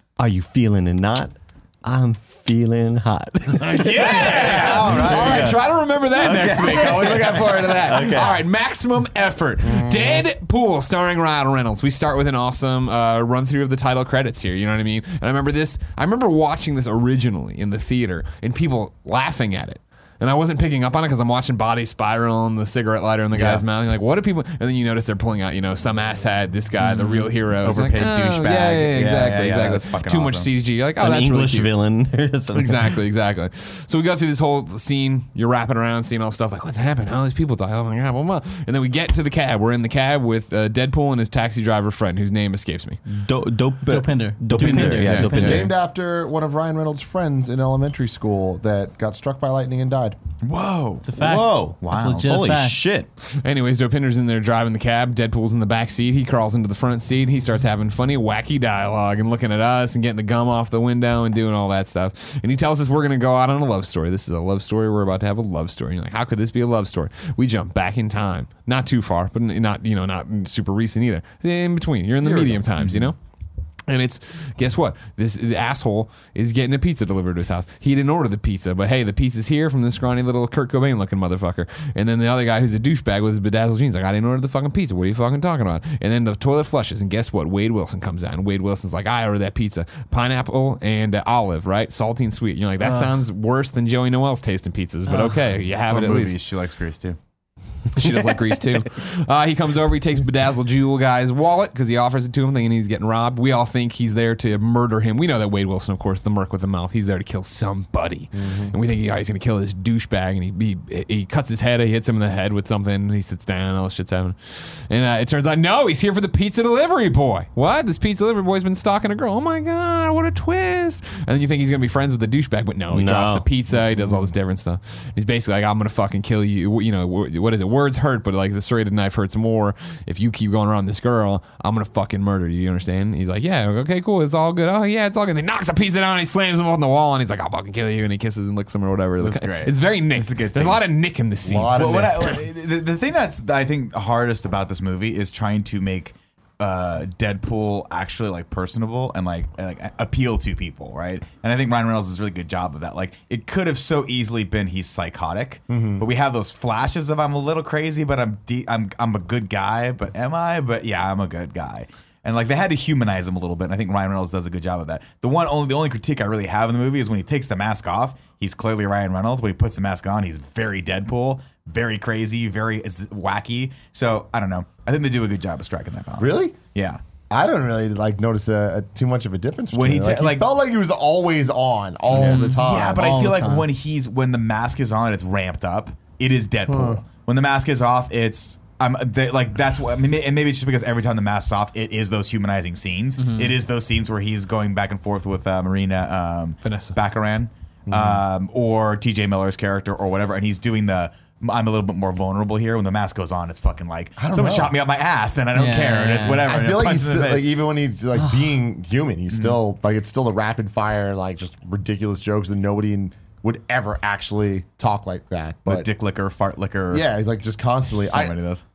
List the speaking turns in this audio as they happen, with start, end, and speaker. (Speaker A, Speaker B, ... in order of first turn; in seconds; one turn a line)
Speaker A: 0.2-8.4
Speaker B: 3.6-31.7
Speaker C: 4.0-5.6
Speaker C: 6.2-7.5
Speaker D: 9.6-10.2
Speaker C: 23.3-23.6
Speaker C: 26.8-30.5
Speaker A: 31.0-33.0
Speaker B: 32.5-43.0
Speaker A: 43.1-45.7
Speaker E: 43.9-45.7
Speaker B: 44.5-45.7
Speaker D: 45.3-50.2
Speaker C: 50.4-51.1
Speaker E: 51.0-52.8
Speaker A: 51.2-53.1
Speaker C: 51.8-52.4
Speaker B: 53.2-73.2
Speaker C: 72.2-73.1
Speaker B: 73.9-96.4
Speaker E: 92.8-93.1
Speaker E: 95.1-95.4
Speaker C: 95.9-97.2
Speaker B: 97.9-142.2
Speaker D: 108.3-108.8
Speaker A: 122.9-123.5
Speaker C: 139.2-140.8
Speaker D: 141.4-142.4
Speaker C: 141.7-177.0
Speaker D: 155.7-156.0
Speaker D: 176.2-176.6
Speaker D: 177.3-183.1
Speaker C: 179.7-180.5
Speaker C: 182.1-207.5
Speaker E: 182.2-183.7
Speaker D: 186.7-187.0
Speaker E: 193.2-193.5
Speaker B: 196.6-197.0
Speaker D: 197.9-198.2
Speaker D: 204.2-204.7
Speaker E: 205.5-206.5
Speaker D: 206.4-215.9
Speaker E: 208.2-208.5
Speaker C: 209.3-209.6
Speaker C: 215.7-217.1
Speaker D: 216.9-218.3
Speaker C: 217.9-218.6